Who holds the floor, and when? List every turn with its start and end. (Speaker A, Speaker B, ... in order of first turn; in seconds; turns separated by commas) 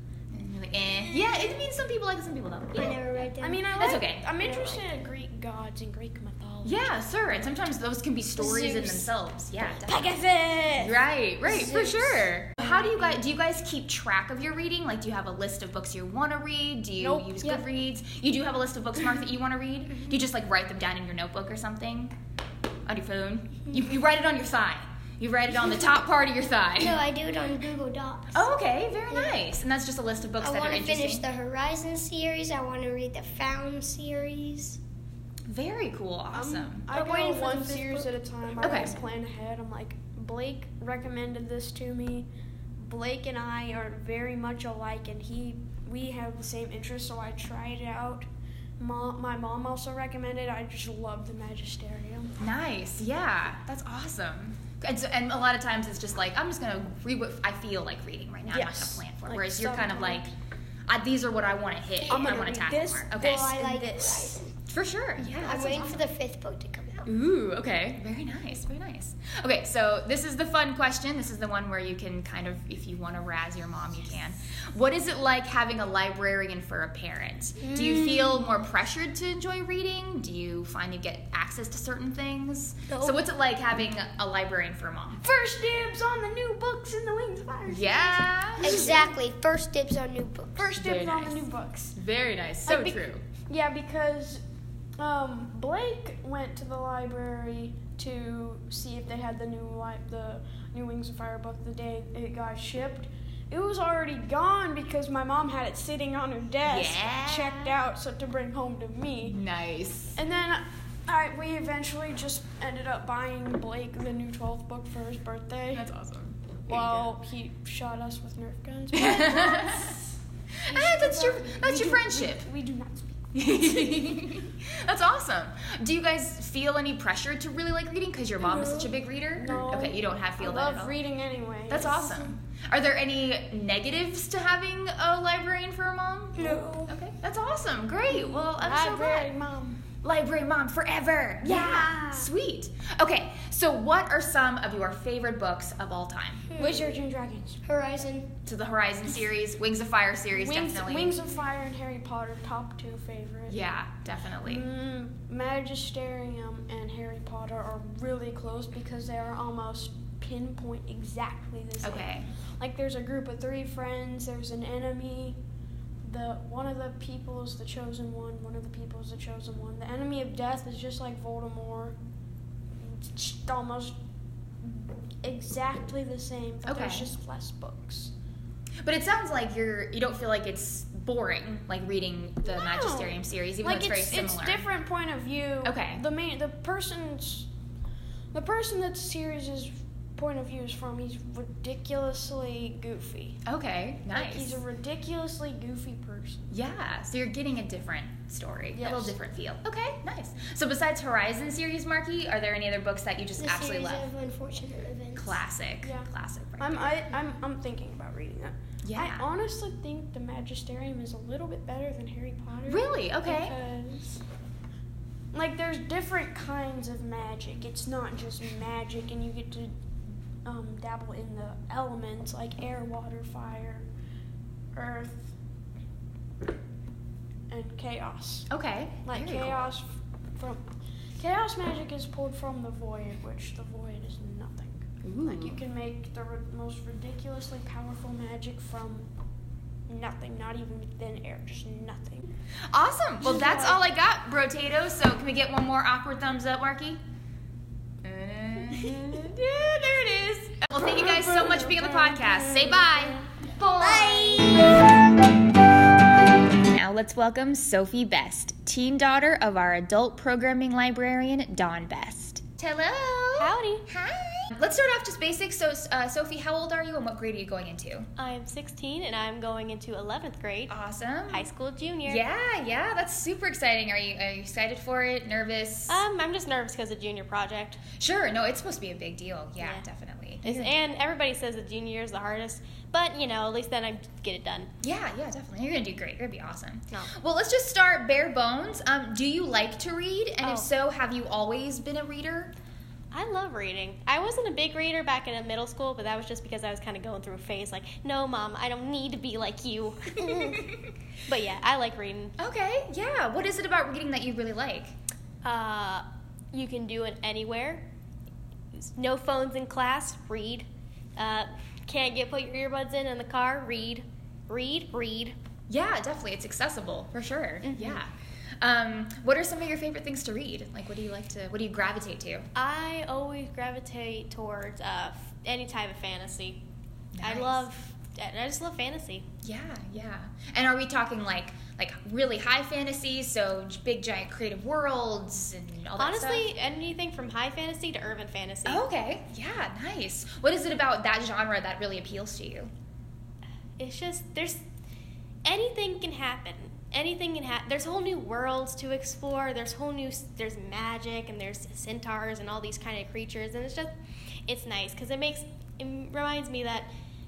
Speaker A: 0.3-3.0, Speaker B: 2.7-4.9, Speaker C: 3.4-7.0, Speaker A: 3.8-4.3, Speaker A: 6.6-10.2, Speaker B: 8.4-9.1, Speaker B: 9.7-12.3, Speaker A: 10.7-22.1, Speaker C: 12.6-13.1, Speaker C: 17.0-17.4, Speaker A: 22.9-27.0, Speaker B: 26.8-28.5, Speaker A: 28.3-31.2, Speaker B: 29.1-29.4, Speaker B: 30.4-34.8, Speaker A: 35.5-36.9, Speaker C: 36.3-48.3, Speaker B: 36.9-38.9, Speaker A: 38.6-39.0, Speaker C: 48.8-52.4, Speaker A: 52.4-60.3, Speaker C: 58.4-60.3, Speaker A: 60.9-63.5, Speaker C: 62.0-64.4, Speaker B: 62.1-62.4, Speaker B: 63.1-64.5, Speaker A: 64.7-66.1, Speaker B: 65.3-67.1, Speaker A: 67.0-85.2, Speaker B: 77.6-78.4, Speaker B: 82.9-83.2, Speaker C: 85.2-89.1, Speaker A: 87.7-89.1, Speaker B: 88.6-90.6, Speaker C: 90.5-92.0, Speaker A: 90.7-93.2, Speaker D: 92.7-93.0, Speaker C: 93.5-94.4, Speaker C: 95.0-109.4, Speaker A: 106.6-107.7, Speaker A: 109.2-110.2, Speaker C: 110.1-115.9, Speaker A: 115.7-117.1, Speaker C: 116.7-120.1, Speaker A: 118.9-120.0, Speaker A: 120.7-122.5, Speaker C: 120.7-124.3, Speaker A: 123.3-130.9, Speaker B: 128.4-128.9, Speaker C: 129.4-132.3, Speaker A: 131.7-139.3, Speaker C: 136.4-136.8, Speaker B: 136.4-136.9, Speaker C: 138.1-139.8, Speaker A: 140.0-146.5, Speaker C: 141.4-142.1, Speaker B: 141.5-142.3, Speaker B: 146.5-146.9, Speaker C: 146.6-147.6, Speaker B: 147.6-148.3, Speaker A: 148.4-151.2, Speaker C: 150.3-153.6, Speaker A: 153.5-154.6, Speaker C: 154.4-165.4, Speaker A: 161.8-162.3, Speaker C: 166.0-172.0, Speaker C: 172.8-173.9, Speaker C: 174.6-178.1, Speaker A: 176.6-177.1, Speaker A: 178.8-184.7, Speaker C: 182.4-187.5, Speaker A: 185.6-186.0, Speaker C: 188.3-193.4, Speaker A: 193.4-194.6, Speaker C: 194.1-196.5, Speaker A: 196.5-204.1, Speaker C: 198.7-199.2, Speaker B: 203.4-205.4, Speaker A: 205.1-206.9, Speaker C: 205.8-214.2, Speaker A: 208.8-209.2, Speaker A: 212.7-213.6, Speaker C: 215.3-219.7, Speaker C: 220.4-223.8, Speaker C: 224.7-225.3, Speaker C: 227.5-228.5, Speaker A: 228.5-229.7, Speaker C: 229.0-230.6, Speaker C: 231.2-239.1, Speaker A: 235.0-235.6, Speaker C: 239.9-242.3, Speaker A: 242.7-247.0, Speaker C: 243.2-243.8, Speaker A: 248.0-255.0, Speaker C: 251.0-253.2, Speaker B: 253.8-254.8, Speaker A: 256.6-268.1, Speaker D: 263.4-263.9, Speaker D: 268.2-270.8, Speaker A: 270.7-271.5, Speaker D: 271.3-272.2, Speaker A: 272.1-276.0, Speaker D: 275.9-277.8, Speaker A: 278.0-280.8, Speaker D: 279.6-279.9, Speaker D: 280.4-284.7, Speaker A: 284.8-292.5, Speaker D: 290.4-290.7, Speaker D: 293.1-300.7, Speaker A: 300.2-300.9, Speaker D: 301.2-302.4, Speaker A: 302.4-304.9, Speaker D: 305.4-307.9, Speaker D: 308.7-315.4, Speaker A: 315.7-322.4, Speaker D: 317.6-318.0, Speaker D: 322.5-326.6, Speaker A: 327.1-327.6, Speaker D: 327.2-329.3, Speaker A: 329.4-336.5, Speaker D: 336.0-338.9, Speaker A: 338.6-342.7, Speaker D: 343.8-344.6, Speaker D: 345.4-353.9, Speaker D: 354.5-356.9